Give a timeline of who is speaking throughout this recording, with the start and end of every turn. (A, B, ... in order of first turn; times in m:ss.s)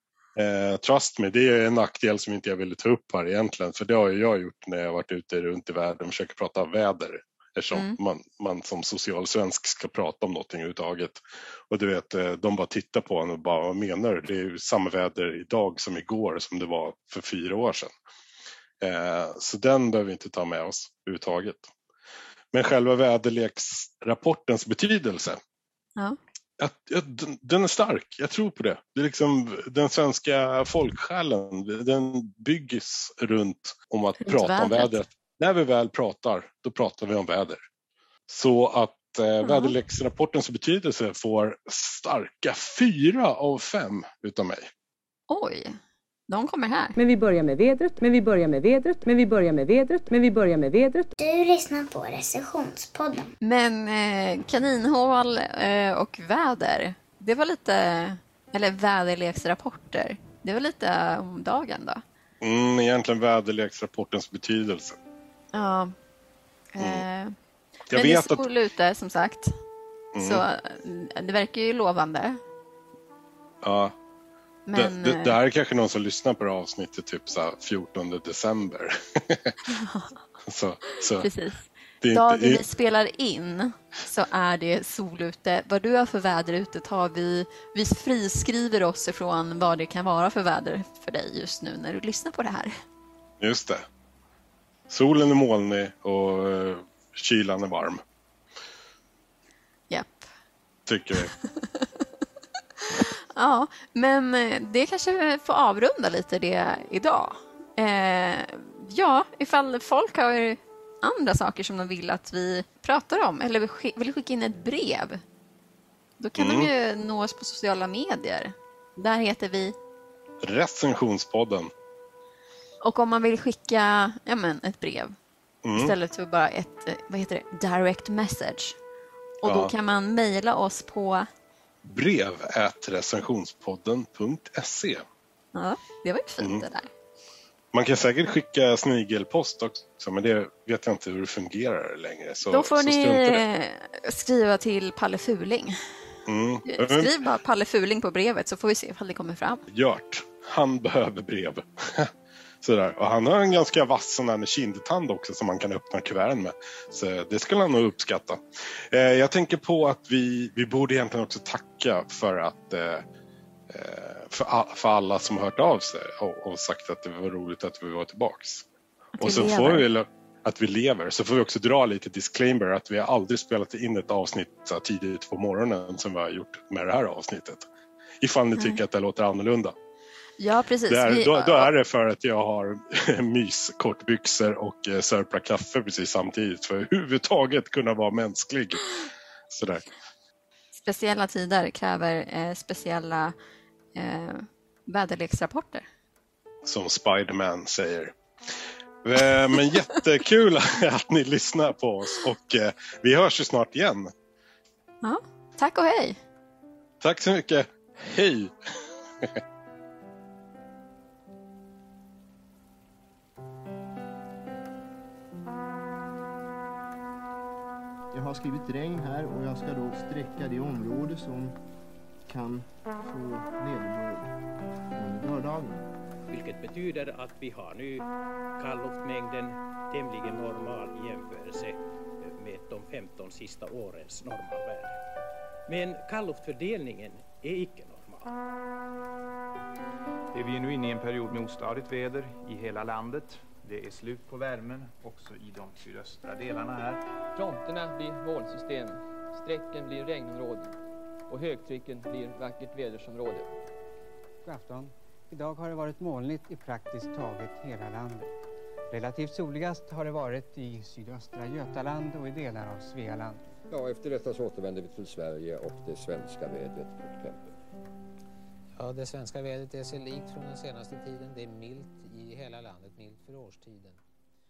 0:00.4-0:17.9 A
0:18.8-0:21.7 A
0:22.5-0:25.4 A
0:26.6-0:37.6 A
0:34.2-0:35.0 B
0:38.3-0:44.7 A
0:39.4-0:39.7 B
0:45.3-0:45.8 B
0:46.3-0:47.0 B
0:47.0-0:51.1 C
0:51.2-0:53.3 D
0:53.4-1:02.0 B
1:02.4-1:05.0 A
1:05.5-1:05.9 B
1:06.7-1:07.3 B
1:06.8-1:07.0 A
1:07.9-1:08.5 A
1:07.9-1:09.5 B
1:10.1-1:10.4 A
1:10.2-1:12.4 B
1:13.6-1:13.9 A
1:14.7-1:15.4 B
1:14.7-1:19.6 A
1:19.7-1:20.1 B
1:20.4-1:21.3 A
1:21.2-1:32.7 B
1:22.0-1:22.6 A
1:33.4-1:33.8 A
1:34.9-1:38.0 A
1:39.9-1:40.3 B
1:40.8-1:41.3 A
1:41.6-1:41.9 B
1:43.0-1:55.2 B
1:56.2-1:59.7 B
1:56.4-1:56.7 A
2:00.4-2:01.7 A
2:02.8-2:05.2 B
2:05.6-2:05.9 A
2:05.8-2:08.8 B
2:09.4-2:11.3 B
2:09.4-2:09.7 A
2:11.8-2:15.0 A
2:15.5-2:16.9 B
2:16.4-2:16.6 A
2:17.7-2:23.4 A
2:22.5-2:25.8 B
2:26.2-2:27.1 A
2:26.7-2:29.6 B
2:29.7-2:43.0 A
2:43.7-2:48.7 A
2:49.2-2:49.8 B
2:49.2-2:57.6 A
2:58.2-2:59.7 A
3:00.4-3:01.7 B
3:00.9-3:08.8 A
3:09.5-3:09.8 A
3:10.8-3:13.3 B
3:13.9-3:15.8 B
3:16.6-3:18.1 A
3:19.0-3:24.1 A
3:25.0-3:26.2 B
3:27.0-3:28.5 A
3:38.1-3:41.5 E
3:42.3-3:44.3 E
3:45.0-3:45.8 E
3:46.3-3:55.0 F
3:55.7-3:58.3 F
4:00.3-4:07.0 G
4:07.4-4:10.8 H
4:11.3-4:13.5 H
4:14.4-4:18.3 I
4:18.9-4:23.4 I
4:23.7-4:27.6 J
4:28.8-4:34.0 K